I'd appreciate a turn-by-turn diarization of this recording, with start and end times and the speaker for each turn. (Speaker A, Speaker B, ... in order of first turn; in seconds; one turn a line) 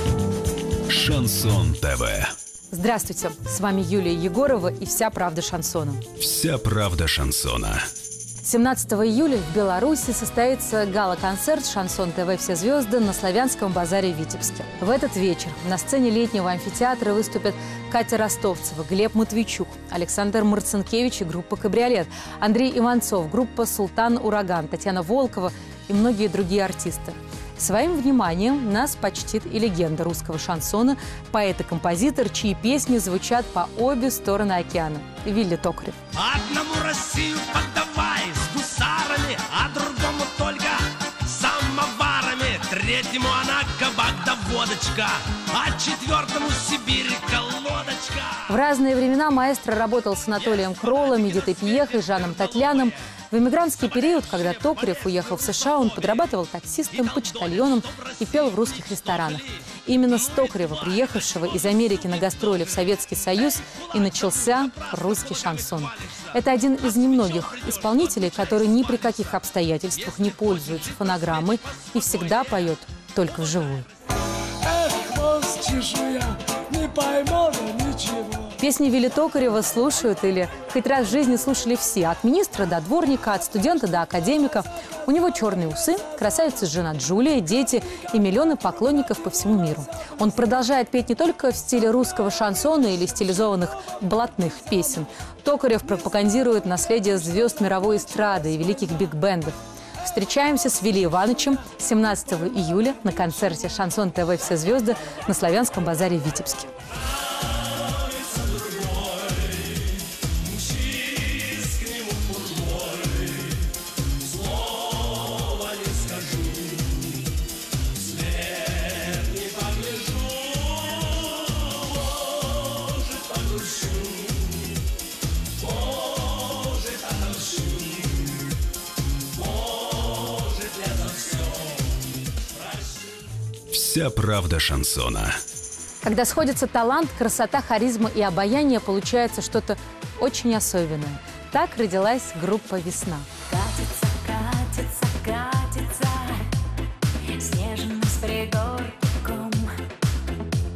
Speaker A: 0.9-2.3
Speaker B: 2.7-6.0
Speaker A: 6.2-7.9
Speaker B: 8.4-36.0
Speaker C: 36.1-48.4
Speaker B: 48.5-73.9
Speaker D: 74.6-78.5
Speaker B: 78.6-106.7
Speaker C: 108.4-108.9
Speaker C: 111.5-112.8
Speaker C: 115.7-116.6
Speaker C: 119.1-120.2
Speaker C: 123.2-124.2
Speaker C: 126.5-127.9
Speaker C: 130.2-131.6
Speaker A: 133.7-135.4
Speaker B: 136.0-143.3
Speaker E: 143.5-146.5
Speaker E: 147.3-149.8